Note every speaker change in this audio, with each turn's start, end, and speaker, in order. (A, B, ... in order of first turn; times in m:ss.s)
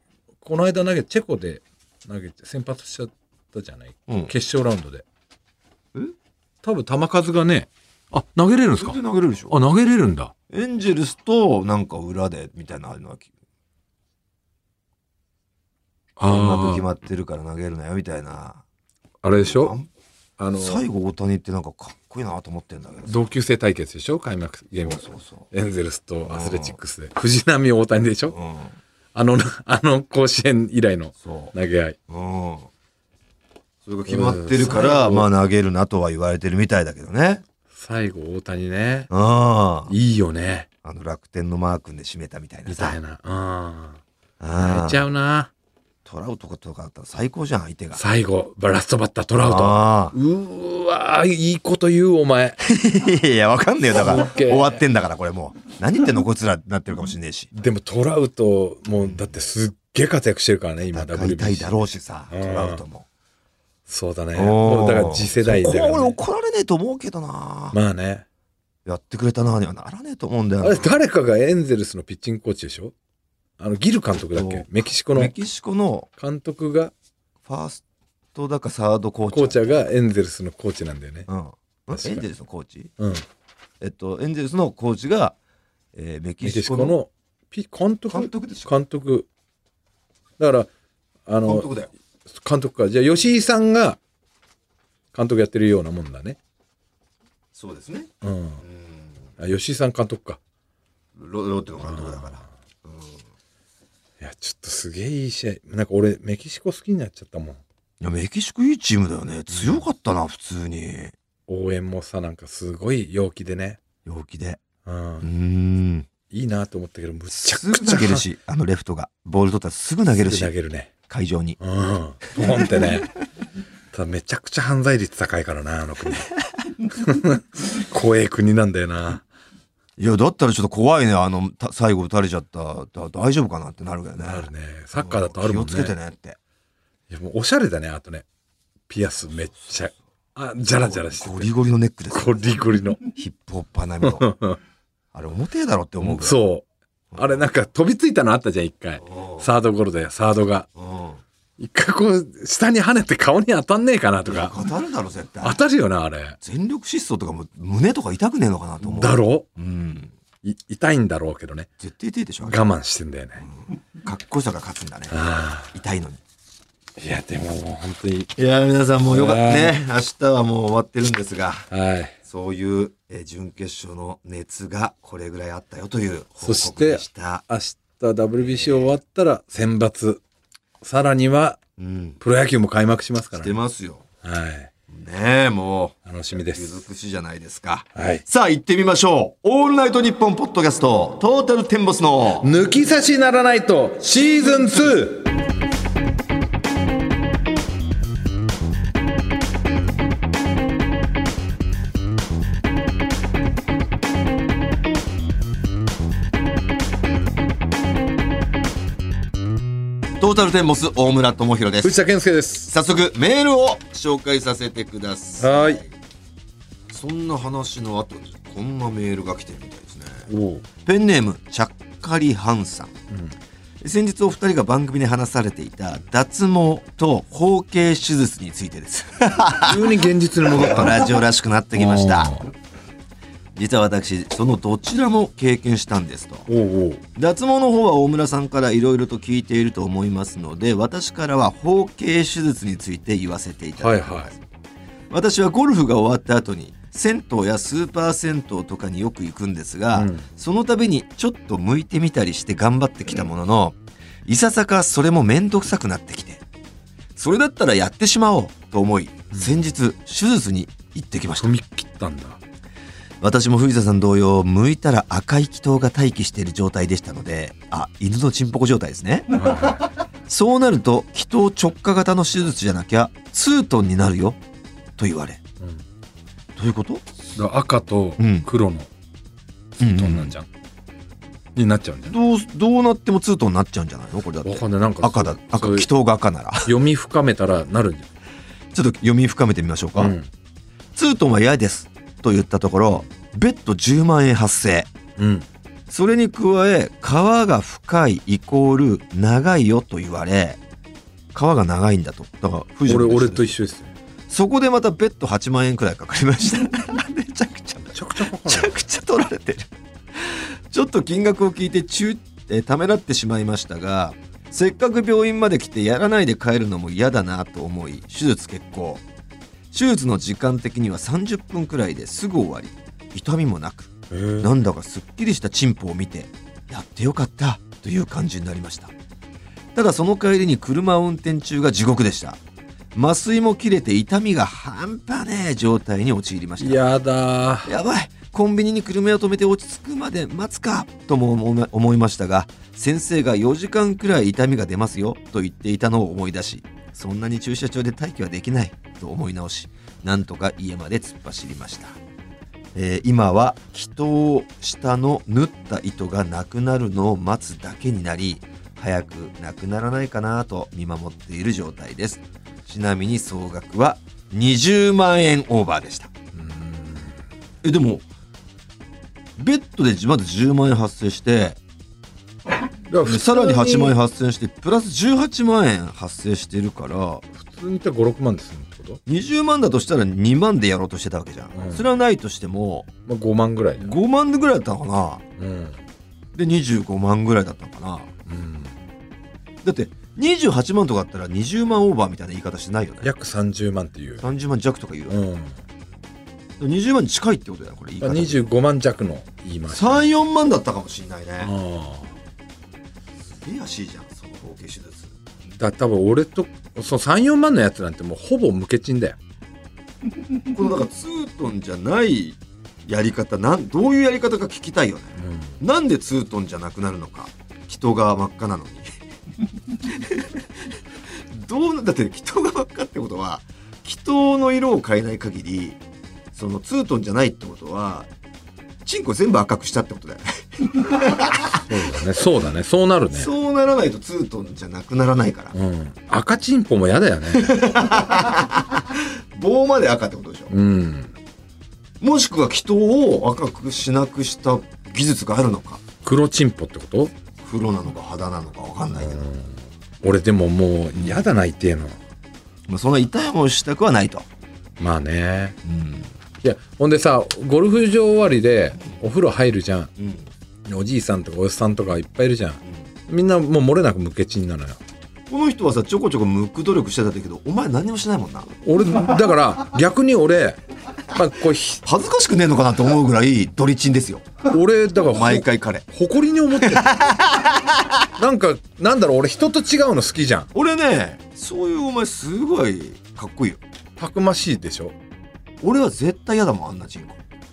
0:00.4-0:05.0 A
0:06.6-0:09.0 A
0:08.8-0:09.6 B
0:09.5-0:10.3 A
0:10.5-0:13.3 B
0:16.2-0:16.9 A
0:16.2-0:18.6 B
0:19.2-0:19.8 A
0:19.4-0:19.9 B
0:20.4-0:20.8 A
0:20.5-0:23.2 B
0:23.1-0:28.4 A
0:24.8-0:25.5 B
0:26.3-0:26.8 B
0:28.3-0:28.8 B
0:29.1-0:32.0 A
0:31.2-0:31.5 B
0:32.1-0:32.7 B
0:33.8-0:37.4 B
0:34.1-0:35.3 A
0:37.7-0:39.1 A
0:39.1-0:39.9 B
0:39.9-0:40.7 A
0:40.8-0:43.0 B
0:42.7-0:44.0 A
0:44.4-0:45.0 B
0:44.6-0:45.5 A
0:46.0-0:48.0 B
0:48.0-0:52.6 A
0:49.4-0:50.2 B
0:52.6-0:57.5 B
0:53.9-0:54.8 A
0:57.5-1:02.8 A
1:00.9-1:03.1 B
1:03.9-1:06.2 A
1:04.4-1:07.8 B
1:07.7-1:08.2 A
1:08.9-1:11.0 B
1:10.6-1:12.9 A
1:13.6-1:15.3 A
1:14.3-1:16.1 B
1:16.2-1:16.9 A
1:17.5-1:17.8 B
1:18.3-1:19.7 B
1:19.3-1:21.3 A
1:21.3-1:22.9 B
1:21.9-1:22.2 A
1:23.0-1:23.2 A
1:23.8-1:25.4 B
1:25.9-1:27.0 B
1:26.4-1:29.3 A
1:28.1-1:28.7 B
1:30.4-1:30.7 A
1:31.3-1:31.7 A
1:31.4-1:31.9 B
1:32.3-1:34.0 A
1:35.1-1:36.4 A
1:37.6-1:38.1 B
1:38.2-1:38.6 A
1:38.6-1:39.3 B
1:39.4-1:40.4 A
1:41.2-1:43.2 B
1:41.8-1:42.4 A
1:44.2-1:47.6 A
1:48.0-1:51.1 B
1:49.5-1:49.8 A
1:51.5-1:53.8 A
1:54.0-1:54.6 B
1:54.8-1:55.3 A
1:55.2-1:56.1 B
1:56.3-1:58.2 A
1:57.3-2:00.5 B
2:00.2-2:00.9 A
2:01.1-2:01.6 B
2:01.6-2:03.1 A
2:02.4-2:02.8 B
2:03.9-2:06.3 A
2:06.9-2:09.2 A
2:10.0-2:16.4 B
2:14.2-2:16.0 A
2:17.1-2:18.2 A
2:18.9-2:21.5 A
2:20.6-2:22.6 B
2:22.1-2:23.0 A
2:23.1-2:24.3 B
2:24.0-2:24.6 A
2:25.1-2:26.4 B
2:26.0-2:30.7 A
2:27.1-2:27.4 B
2:29.0-2:29.5 B
2:30.8-2:31.2 B
2:31.6-2:34.6 A
2:34.2-2:35.6 B
2:35.4-2:36.4 A
2:36.4-2:40.1 B
2:38.8-2:39.5 A
2:40.4-2:41.7 A
2:41.8-2:42.6 B
2:42.4-2:43.5 A
2:43.4-2:45.2 B
2:45.1-2:45.7 A
2:45.7-2:46.2 B
2:47.0-2:48.3 A
2:48.4-2:51.7 B
2:49.1-2:49.8 A
2:51.7-2:52.2 A
2:52.2-2:57.4 B
2:56.4-3:00.2 A
2:58.4-2:58.9 B
3:00.8-3:01.6 A
3:01.8-3:02.2 B
3:02.2-3:03.5 A
3:03.3-3:04.0 B
3:04.2-3:04.7 A
3:04.9-3:12.5 B
3:06.1-3:06.8 A
3:08.0-3:08.2 A
3:12.4-3:15.3 A
3:30.2-3:32.0 B
3:31.8-3:32.7 A
3:32.7-3:35.9 B
3:35.4-3:35.8 A
3:36.9-3:40.3 B
3:40.3-3:40.6 A
3:40.8-3:42.9 B
3:43.8-3:52.4 B
3:49.6-3:51.2 A
3:51.7-3:52.5 A
3:53.6-3:56.5 B
3:56.5-3:57.0 A
3:57.2-4:04.5 B
4:03.8-4:04.3 A
4:05.1-4:16.4 B
4:09.9-4:10.3 A
4:17.2-4:21.5 B
4:19.3-4:19.6 A
4:21.4-4:22.4 A
4:23.2-4:34.4 B
4:29.3-4:29.8 A
4:35.0-4:35.4 B
4:36.6-4:37.0 B
4:37.4-4:38.9 A
4:38.2-4:38.5 B
4:39.8-4:40.3 B
4:39.8-4:40.5 A
4:41.6-4:42.2 A
4:42.1-4:46.7 B
4:44.4-4:45.9 A
4:46.6-4:48.1 A
4:48.7-4:50.2 B
4:50.0-4:50.3 A
4:51.0-4:54.9 B
4:55.2-4:55.5 A
4:55.9-5:00.6 B
5:01.3-5:03.6 B
5:02.9-5:03.9 A
5:04.3-5:19.0 B
5:07.9-5:08.8 A
5:19.7-5:28.9 B
5:24.1-5:24.5 A
5:29.8-5:32.4 B
5:33.0-5:36.8 B
5:36.6-5:37.7 A
5:37.6-5:52.0 B
5:52.8-6:06.1 B
6:06.3-6:07.2 A
6:07.6-6:08.1 B
6:09.4-6:11.6 B
6:12.9-6:14.0 A
6:13.0-6:17.2 B
6:17.3-6:19.0 A
6:19.1-6:22.9 B
6:21.6-6:21.8 A
6:23.1-6:23.9 A
6:23.8-6:25.2 B
6:25.4-6:25.8 A
6:26.3-6:28.1 B
6:28.3-6:28.8 A
6:29.6-6:33.1 B
6:33.0-6:34.3 A
6:34.2-6:35.2 B
6:35.1-6:35.6 A
6:36.6-6:38.4 B
6:38.0-6:40.1 A
6:39.7-6:41.5 B
6:41.4-6:42.2 A
6:43.4-6:45.1 B
6:45.5-6:49.2 A
6:50.5-6:58.9 B
6:55.2-6:55.5 A
6:59.8-7:00.5 B
7:01.3-7:05.8 B
7:06.3-7:08.1 B
7:08.8-7:11.7 B
7:11.7-7:13.3 A
7:13.1-7:15.5 B
7:15.5-7:17.6 A
7:17.3-7:20.5 B
7:20.5-7:21.1 A
7:22.0-7:25.8 B
7:26.0-7:27.1 A
7:27.4-7:29.3 B
7:29.0-7:32.0 A
7:31.0-7:31.2 B
7:32.7-7:34.3 B
7:34.8-7:35.6 A
7:35.6-7:36.1 B
7:36.4-7:39.9 A
7:40.0-7:40.3 B
7:40.6-7:44.8 A
7:45.3-7:48.5 B
7:48.6-7:51.8 A
7:51.8-7:54.4 B
7:54.5-7:56.9 A
7:55.1-7:55.8 B
7:56.6-7:58.0 B
7:58.2-8:00.5 A
8:00.5-8:03.6 B
8:04.0-8:04.9 A
8:05.6-8:07.2 B